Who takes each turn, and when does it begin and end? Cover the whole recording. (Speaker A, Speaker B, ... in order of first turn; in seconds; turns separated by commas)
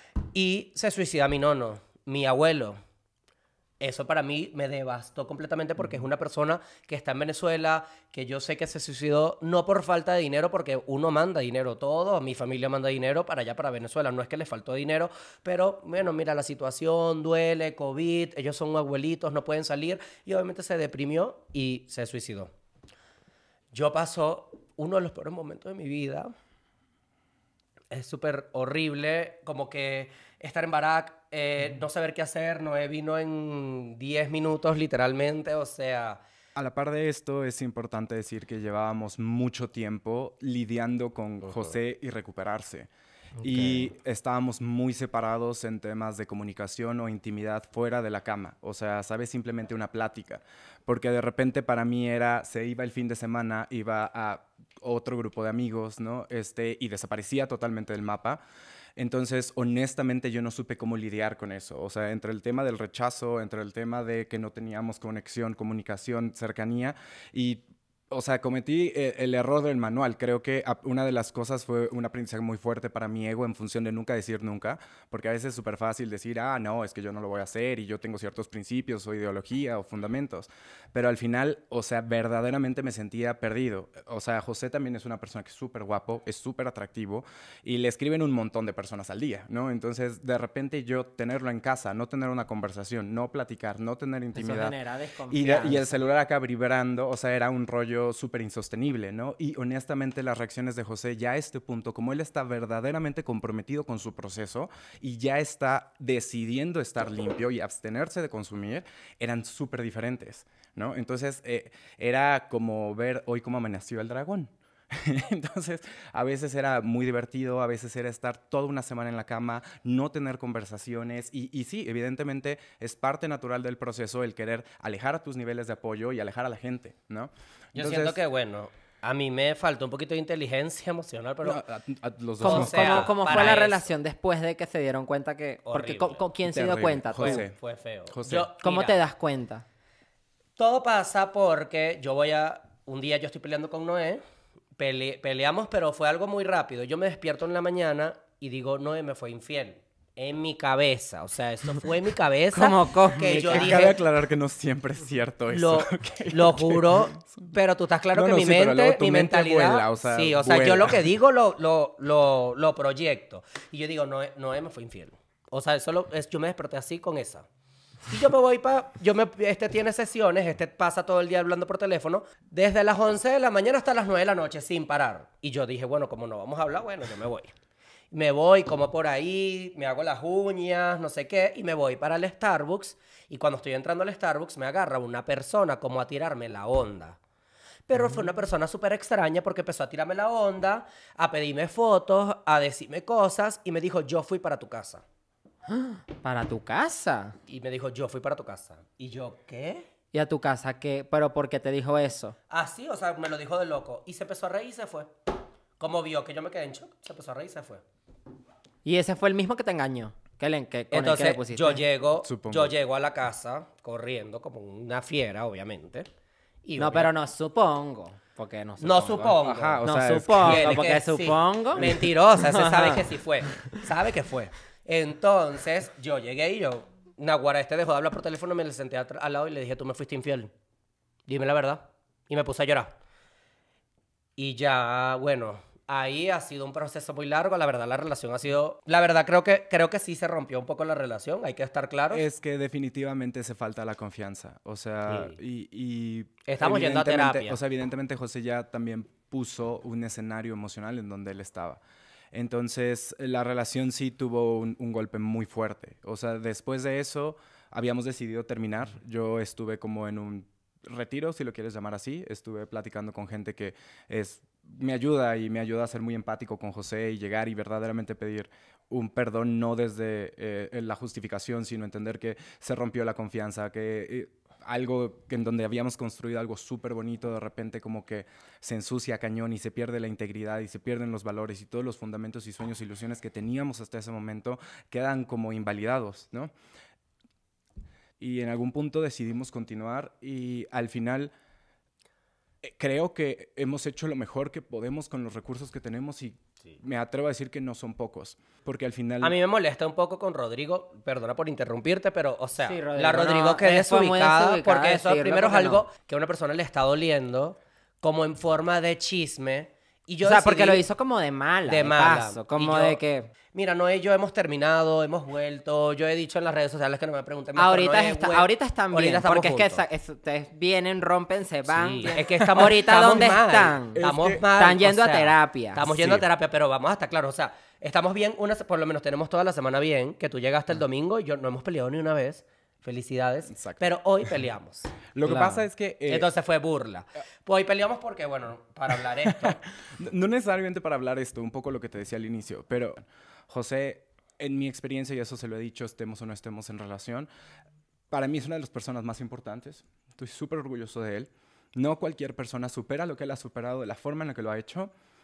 Speaker A: 0.3-2.8, Speaker A: 3.8-22.5, Speaker A: 23.7-26.3, Speaker A: 27.9-36.2, Speaker B: 36.5-42.9, Speaker A: 41.5-41.7, Speaker C: 43.4-43.9, Speaker B: 43.4-58.4, Speaker B: 59.0-94.7, Speaker C: 94.3-96.0, Speaker B: 95.3-128.2, Speaker A: 127.7-131.6, Speaker B: 131.4-133.6, Speaker C: 132.4-137.4, Speaker A: 132.4-133.8, Speaker A: 135.7-136.2, Speaker B: 136.4-137.6, Speaker A: 137.2-139.0, Speaker B: 138.1-138.5, Speaker C: 138.6-139.6, Speaker A: 140.6-144.2, Speaker A: 144.8-154.0, Speaker C: 152.5-153.8, Speaker B: 153.4-157.5, Speaker A: 155.5-167.4, Speaker B: 158.1-161.0, Speaker A: 168.1-177.5, Speaker A: 178.1-187.2, Speaker A: 187.9-195.0, Speaker C: 188.0-188.2, Speaker C: 195.7-197.4, Speaker A: 197.5-199.9, Speaker C: 200.1-202.3, Speaker A: 202.5-205.1, Speaker A: 205.8-207.8, Speaker C: 208.8-211.8, Speaker A: 210.9-216.1, Speaker B: 212.2-212.7, Speaker A: 216.6-217.1, Speaker C: 216.8-223.0, Speaker A: 218.8-230.5, Speaker B: 219.3-220.7, Speaker A: 231.3-232.9, Speaker A: 234.4-242.2, Speaker B: 242.1-251.8, Speaker A: 245.1-245.4, Speaker A: 246.5-247.6, Speaker B: 252.3-286.5, Speaker B: 288.2-291.3, Speaker B: 292.6-299.4, Speaker A: 299.2-310.8, Speaker C: 302.6-305.9, Speaker C: 310.2-313.3, Speaker A: 311.7-313.0, Speaker A: 313.5-319.8, Speaker C: 317.6-325.9, Speaker A: 321.6-335.4, Speaker B: 323.9-324.4, Speaker B: 325.9-326.2, Speaker B: 333.5-333.8, Speaker B: 335.1-336.3, Speaker C: 335.3-335.6, Speaker A: 336.1-339.6, Speaker B: 339.2-347.3, Speaker B: 348.1-354.9